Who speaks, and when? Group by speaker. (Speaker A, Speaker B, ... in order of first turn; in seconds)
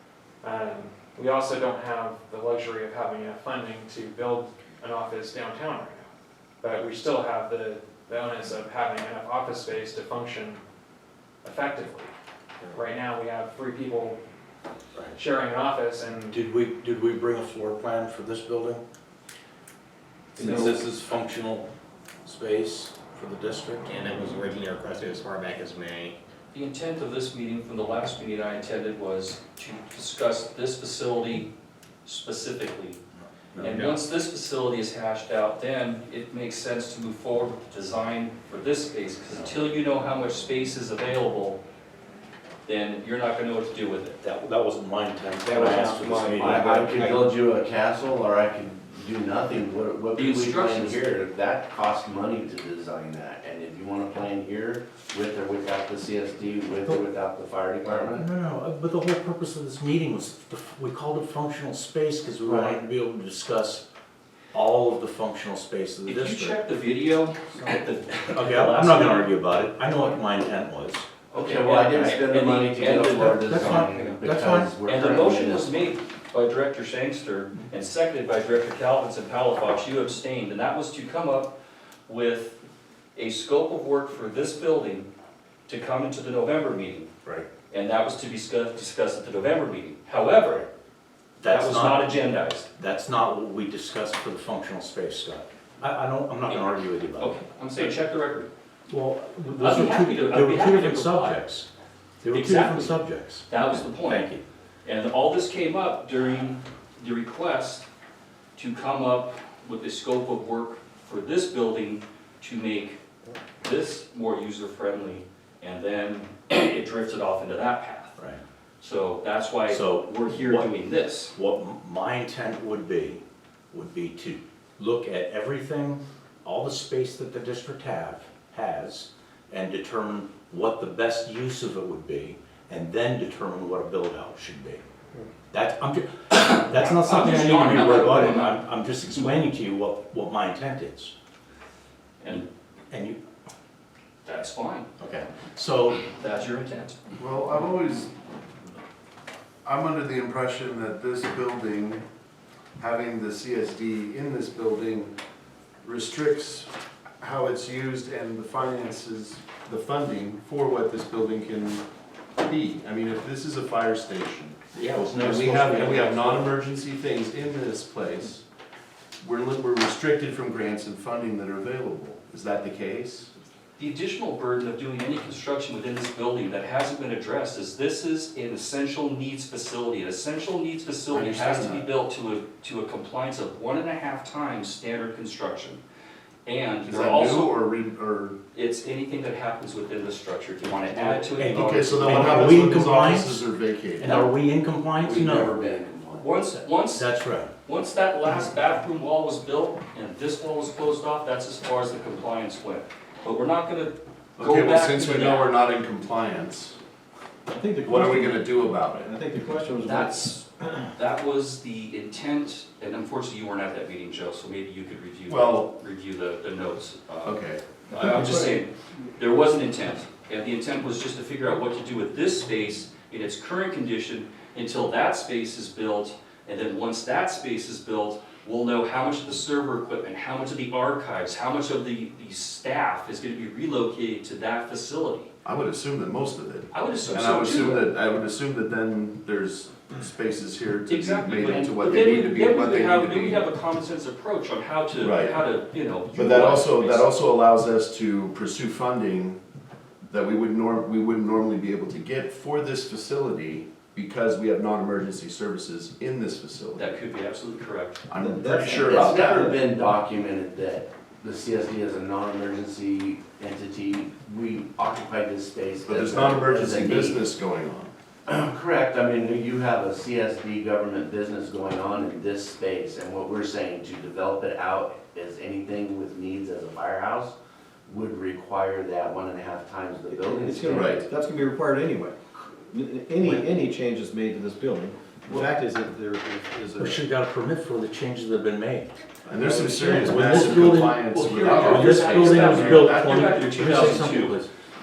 Speaker A: 0.4-6.1, 6.6-10.6, 11.4-12.1, 12.7-14.2, 15.1-16.4
Speaker B: 16.3-18.8, 20.4-21.7, 22.2-24.4, 39.3-39.6, 44.2-47.1, 58.1-63.9, 64.5-66.6, 68.3-71.1, 73.3-74.7, 91.4-92.1, 92.8-97.9, 98.9-101.7, 102.2-104.4, 118.2-118.4, 119.7-120.7, 121.3-134.8, 135.5-141.1, 142.9-143.2, 145.0-146.1, 164.8-166.5, 191.3-193.4, 194.0-195.5, 196.9-197.5, 286.8-289.0, 289.9-291.0, 291.6-294.5
Speaker C: 23.9-26.1
Speaker D: 26.5-31.5, 32.0-33.0, 33.6-41.6, 42.7-44.2, 50.1-51.2, 66.1-69.4, 71.3-73.9, 74.8-81.6, 82.1-82.6, 83.2-85.1, 85.7-87.1, 87.7-90.7, 91.5-92.7, 97.2-98.5, 99.6-101.4, 102.3-103.0, 103.5-104.3, 104.8-107.9, 108.6-113.0, 113.6-118.2, 118.8-121.3, 136.3-138.5, 142.2-142.5, 144.2-144.9, 146.2-147.0, 173.8-185.8, 186.5-187.5, 188.5-192.8, 196.2-197.1, 197.7-205.5, 209.8-235.3, 236.7-237.8, 240.9-247.1, 256.8-258.0, 291.1-294.4
Speaker E: 45.5-47.3, 207.5-208.5, 209.0-210.3, 218.0-218.5, 258.1-259.6, 280.1-287.0, 289.3-290.8
Speaker F: 46.2-55.3, 56.7-58.2, 71.3-75.8, 195.0-196.2, 258.8-267.2, 268.3-269.9, 272.2-277.3, 280.0-280.8, 293.5-293.8
Speaker G: 46.6-47.3, 47.8-48.2, 54.0-54.4, 55.6-57.1, 147.2-148.1, 149.6-152.0, 152.8-155.2, 155.8-161.8, 162.4-168.4, 169.2-173.3, 181.1-181.9, 186.8-188.4, 191.5-194.3, 204.4-206.8, 207.8-209.1, 215.3-215.8, 217.2-217.8, 235.4-243.5, 245.0-245.4, 246.1-249.4, 250.1-257.0, 258.1-259.5, 265.2-267.9, 268.5-272.9, 273.4-273.8, 275.6-277.0, 277.9-279.8, 280.4-281.0, 289.2-294.1